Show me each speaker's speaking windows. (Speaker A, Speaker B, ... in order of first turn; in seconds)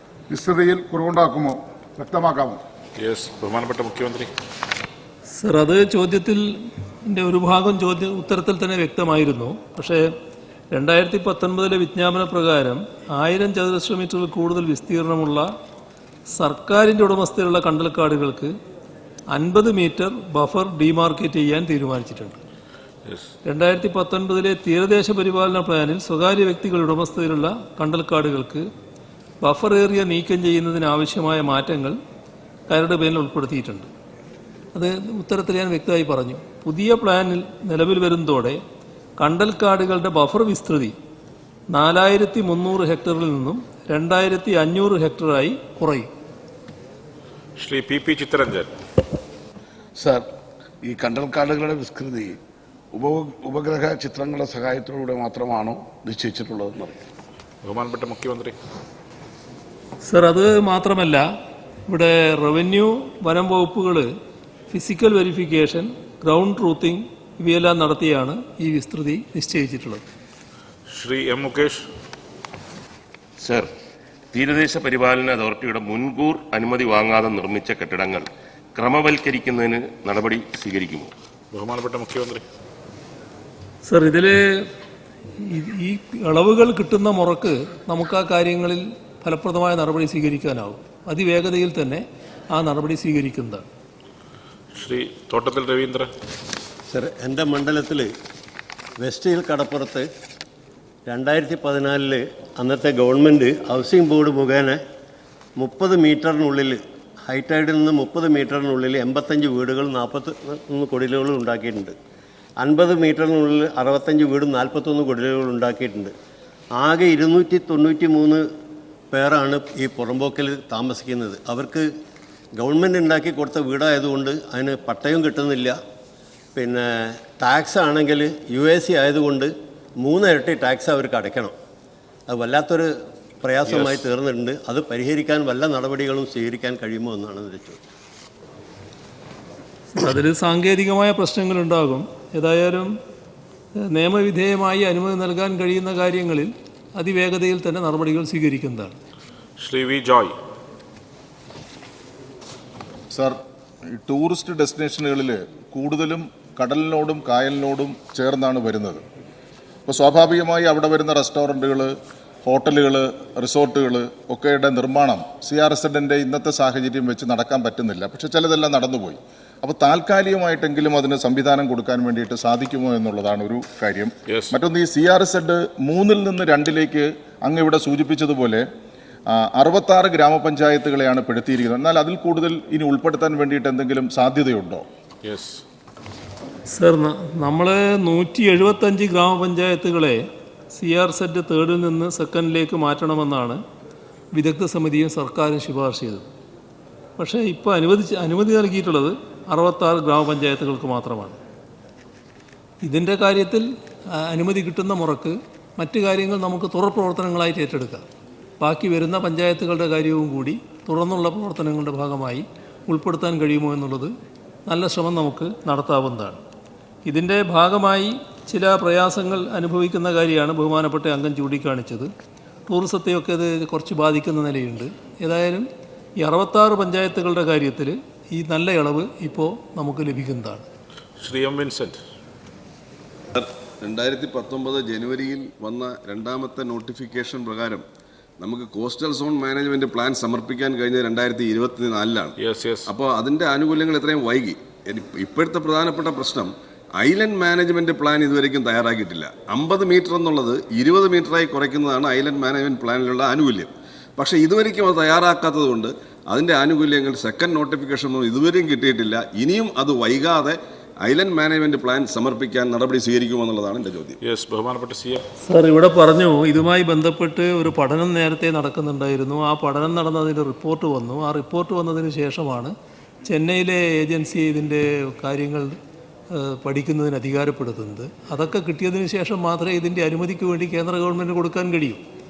Speaker A: 0.3-2.6
Speaker B: 3.0-4.3, 47.6-48.7, 57.6-58.5, 70.9-71.8, 81.5-82.4, 94.7-96.1, 149.6-150.3, 174.3-174.5, 185.2-185.6, 231.2-232.0, 242.4-242.9, 264.2-265.2
Speaker C: 5.3-10.1, 10.7-15.5, 16.3-18.5, 19.3-22.4, 23.4-28.6, 29.4-32.0, 32.7-33.9, 34.7-38.6, 39.2-40.9, 41.7-46.1, 60.0-61.3, 61.9-64.1, 64.7-70.0, 83.8-84.7, 85.4-93.7, 139.9-142.9, 143.8-149.0, 186.7-193.6, 194.3-196.3, 197.2-201.4, 202.8-203.7, 204.2-208.0, 208.6-214.1, 214.7-216.4, 217.1-222.1, 222.7-225.7, 226.2-230.7, 265.4-272.7, 273.2-275.8, 276.3-282.0
Speaker D: 50.0-50.2, 50.8-52.3, 52.9-57.0
Speaker E: 73.4-73.7, 74.3-81.1
Speaker F: 96.9-98.1, 99.0-100.1, 101.1-104.8, 105.6-111.9, 112.6-116.1, 116.8-118.4, 119.1-121.9, 122.6-125.8, 126.5-131.5, 132.3-137.8
Speaker G: 153.1-153.4, 153.9-159.0, 159.8-178.6, 179.3-184.8
Speaker H: 233.3-237.8, 238.4-242.3, 242.9-264.2